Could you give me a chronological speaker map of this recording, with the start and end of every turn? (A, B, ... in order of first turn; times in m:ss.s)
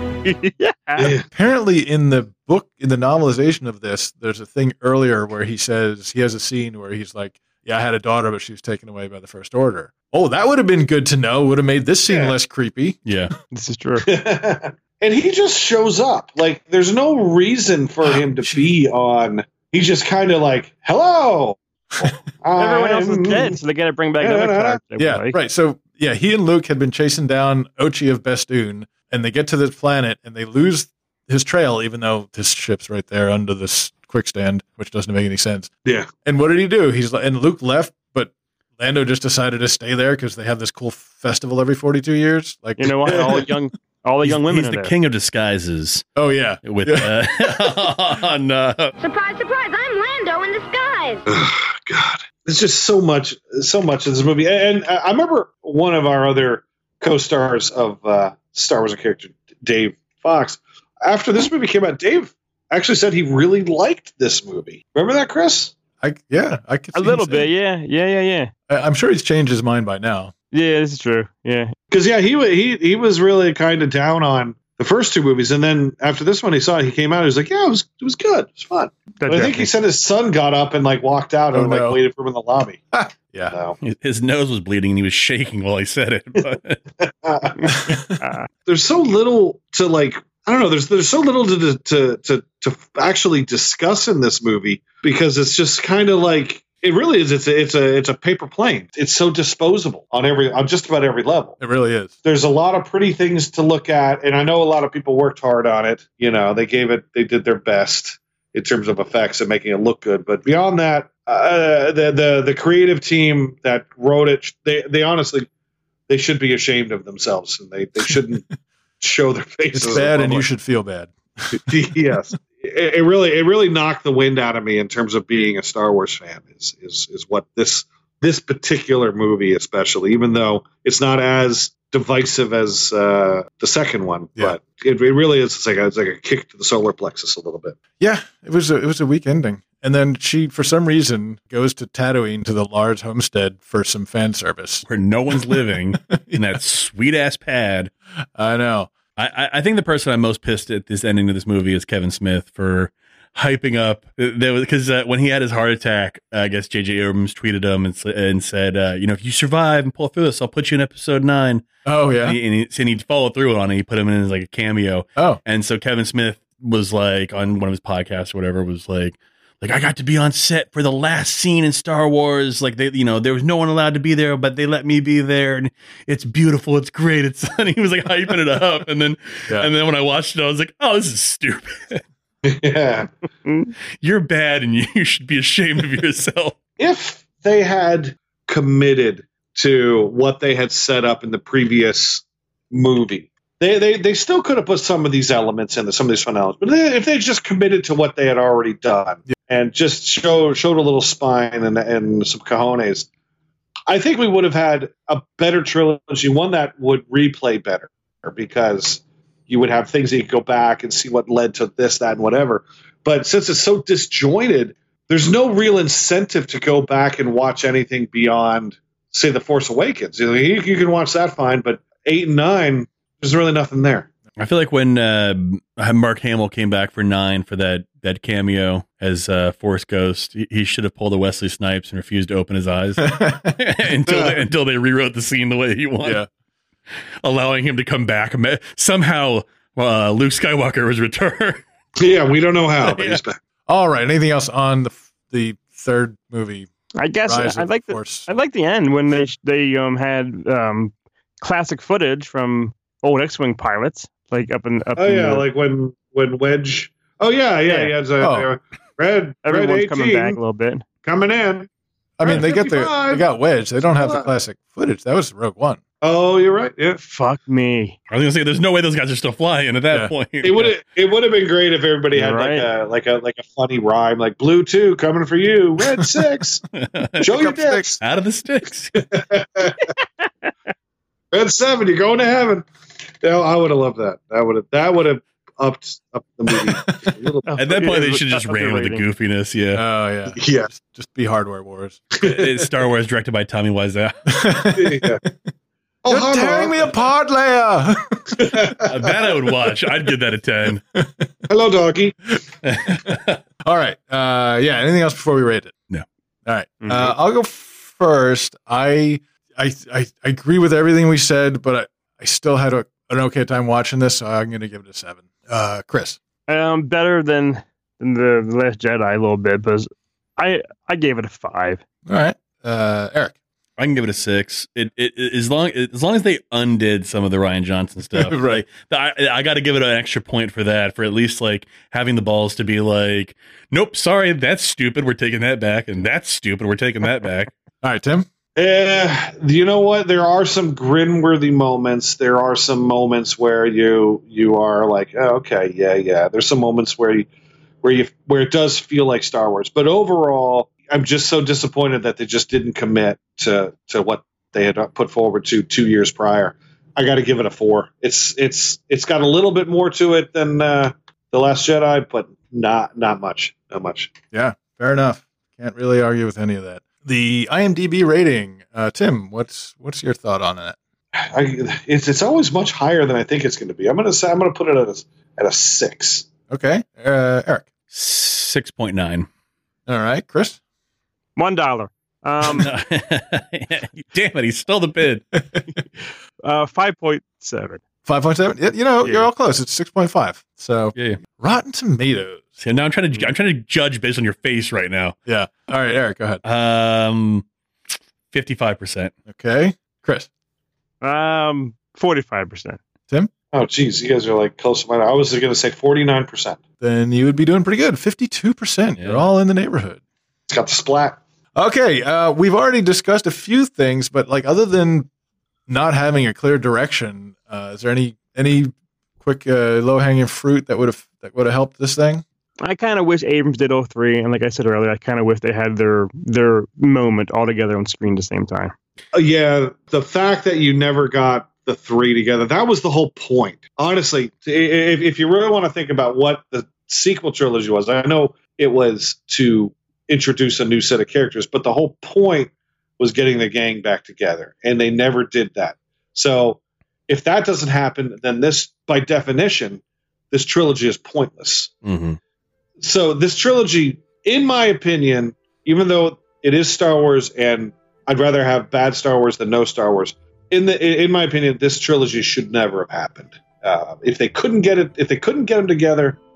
0:00.2-0:01.1 A
0:01.0-0:01.3 B
0:01.3-0:13.0 C
0:12.1-0:12.3 B
0:13.0-0:13.3 D
0:13.5-0:14.0 A
0:14.0-0:23.6 B
0:18.0-0:18.6 C
0:22.6-0:25.3 A
0:24.2-0:24.8 B
0:25.0-0:35.7 C
0:36.2-0:43.4 C
0:42.8-0:44.9 A
0:43.0-0:43.4 B
0:44.2-0:46.1 D
0:46.2-0:47.7 C
0:46.6-0:48.9 D
0:49.0-0:51.2 E
0:51.2-1:05.7 B
1:06.0-1:07.5 C
1:06.9-1:08.5 A
1:08.7-1:10.3 C
1:10.5-1:11.7 A
1:11.9-1:22.8 B
1:19.2-1:19.7 A
1:21.5-1:22.0 C
1:22.9-1:23.5 C
1:23.5-1:23.8 B
1:23.8-1:26.8 D
1:27.0-1:27.6 B
1:27.6-1:28.5 A
1:27.8-1:28.1 C
1:28.6-1:41.6 B
1:41.6-1:42.1 C
1:42.2-1:55.5 B
1:56.1-1:58.4 B
1:59.0-2:00.4 B
1:59.7-2:02.0 C
2:01.5-2:17.8 B
2:18.0-2:26.5 C
2:24.8-2:27.9 D
2:28.4-2:28.9 C
2:29.2-2:41.6 D
2:41.8-2:42.4 C
2:42.2-3:02.0 D
3:02.4-3:03.1 B
3:04.0-3:06.6 D
3:06.8-3:23.1 B
3:23.9-3:44.1 B
3:44.4-3:56.2 D
3:53.0-3:53.5 C
3:54.1-3:54.3 B
3:57.2-4:01.6 D
4:02.0-4:03.4 B
4:02.8-4:03.2 D
4:03.7-4:06.7 C
4:07.0-4:15.4 A
4:07.2-4:08.3 C
4:15.0-4:20.4 B
4:17.7-4:17.9 A
4:18.2-4:18.5 C
4:19.4-4:20.8 A
4:21.0-4:21.7 B
4:22.2-4:25.8 C
4:22.2-4:23.3 B
4:23.9-4:24.3 B
4:26.0-4:27.0 B
4:27.0-4:28.0 A
4:28.1-4:30.7 D
4:30.4-4:36.6 B
4:32.1-4:32.7 A
4:36.8-4:37.2 D
4:37.2-4:38.0 C
4:37.2-4:38.0 B
4:38.0-4:39.0 D
4:39.0-4:39.8 B
4:41.3-4:42.7 B
4:43.2-4:47.5 B
4:46.5-4:47.1 C
4:47.5-4:49.0 A
4:47.6-4:49.8 D
4:49.7-4:52.0 C
4:50.3-4:50.7 B
4:52.2-4:54.5 D
4:54.3-4:55.3 C
4:54.7-4:55.2 B
4:56.0-4:57.0 B
4:56.1-4:58.7 C
4:58.4-4:58.8 B
4:58.8-5:00.8 D
5:00.9-5:01.3 C
5:01.5-5:02.1 B
5:02.6-5:03.4 D
5:03.6-5:05.7 C
5:06.4-5:16.2 C
5:06.8-5:07.1 A
5:16.5-5:21.8 A
5:22.0-5:23.3 C
5:23.8-5:37.5 D
5:28.1-5:28.6 C
5:37.8-5:38.3 C
5:38.6-5:47.3 B
5:47.8-6:04.1 B
6:04.3-6:10.8 C
6:11.2-6:16.3 B
6:16.5-6:17.7 C
6:17.9-6:19.3 D
6:19.9-6:20.6 C
6:21.4-6:22.7 A
6:22.4-6:25.3 D
6:26.4-6:27.8 A
6:28.0-6:32.5 C
6:29.0-6:29.3 A
6:30.9-6:31.2 D
6:32.6-6:35.2 D
6:35.2-6:36.4 C
6:36.4-6:37.4 D
6:38.3-6:39.1 D
6:39.3-6:40.3 C
6:41.0-6:42.8 A
6:43.5-6:46.6 B
6:46.8-6:50.0 C
6:49.0-6:49.2 D
6:50.5-6:51.2 B
6:51.5-6:55.1 C
6:55.7-7:02.2 C
7:02.6-7:08.7 A
7:09.1-7:31.7 B
7:31.8-7:32.2 D
7:32.8-7:46.2 B